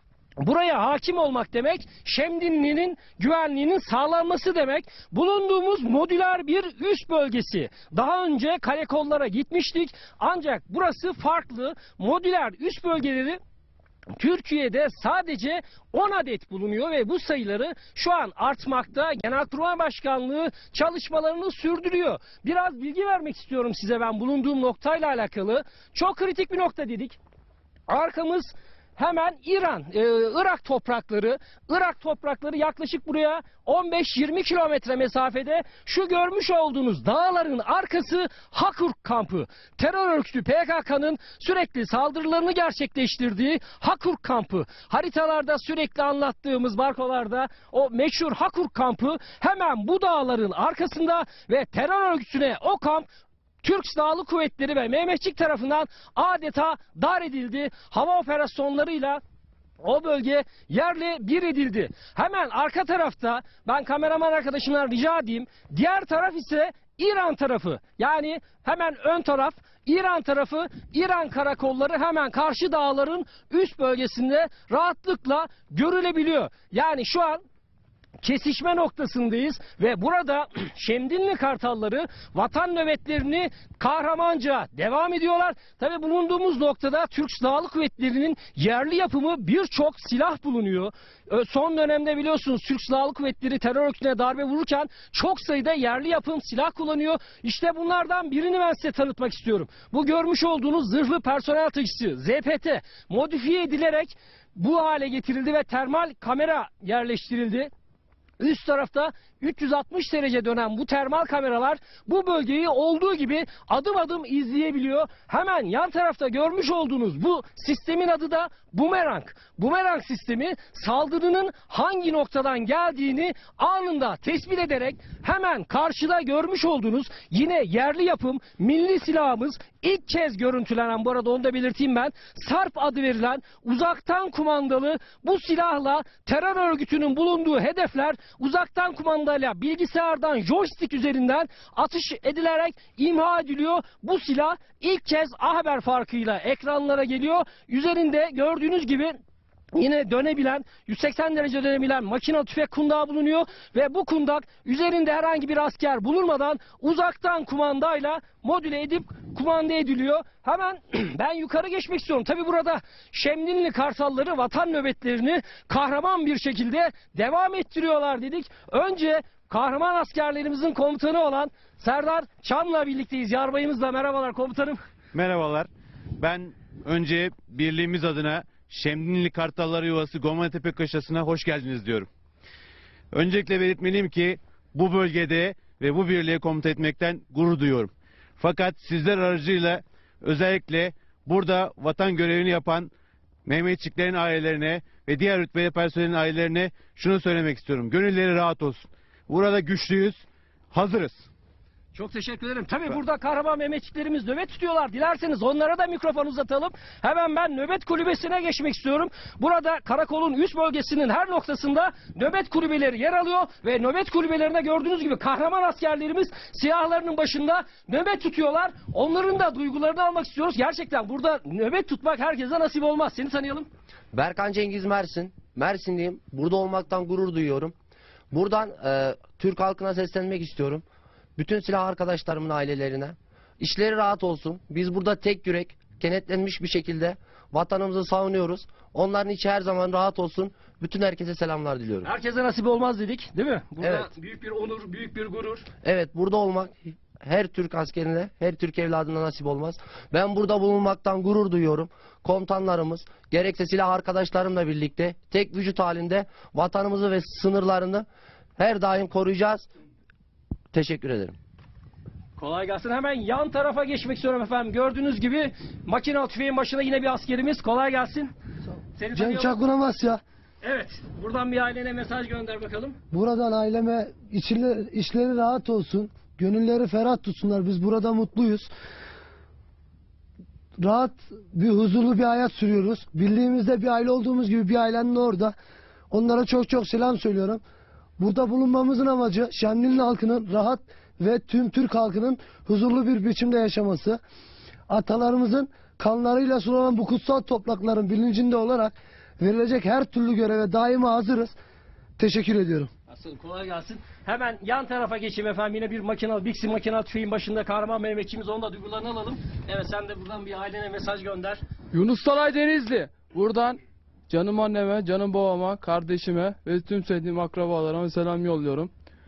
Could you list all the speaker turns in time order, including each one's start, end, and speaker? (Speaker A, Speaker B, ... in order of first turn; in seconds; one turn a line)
Speaker A: 0.4-13.4
Speaker A: 14.2-27.2
Speaker A: 27.9-53.1
Speaker A: 53.6-59.2
Speaker A: 59.8-77.4
Speaker A: 78.2-107.7
Speaker A: 108.4-149.2
Speaker A: 149.7-174.8
Speaker B: 175.1-182.1
Speaker B: 183.1-192.9
Speaker B: 193.4-201.3
Speaker A: 201.9-223.7
Speaker C: 224.1-227.7
Speaker C: 228.3-230.8
Speaker C: 231.4-242.1
Speaker A: 242.0-245.7
Speaker C: 243.8-244.1
Speaker C: 245.8-258.1
Speaker C: 258.6-259.7
Speaker C: 260.7-261.4
Speaker A: 262.4-268.3
Speaker A: 269.0-269.6
Speaker D: 269.1-270.2
Speaker A: 270.6-273.0
Speaker D: 273.1-278.7
Speaker D: 280.8-285.6
Speaker D: 286.1-287.6
Speaker D: 288.2-294.2
Speaker D: 294.9-301.6
Speaker D: 302.2-302.9
Speaker A: 303.1-311.6
Speaker E: 311.9-313.8
Speaker E: 314.3-318.9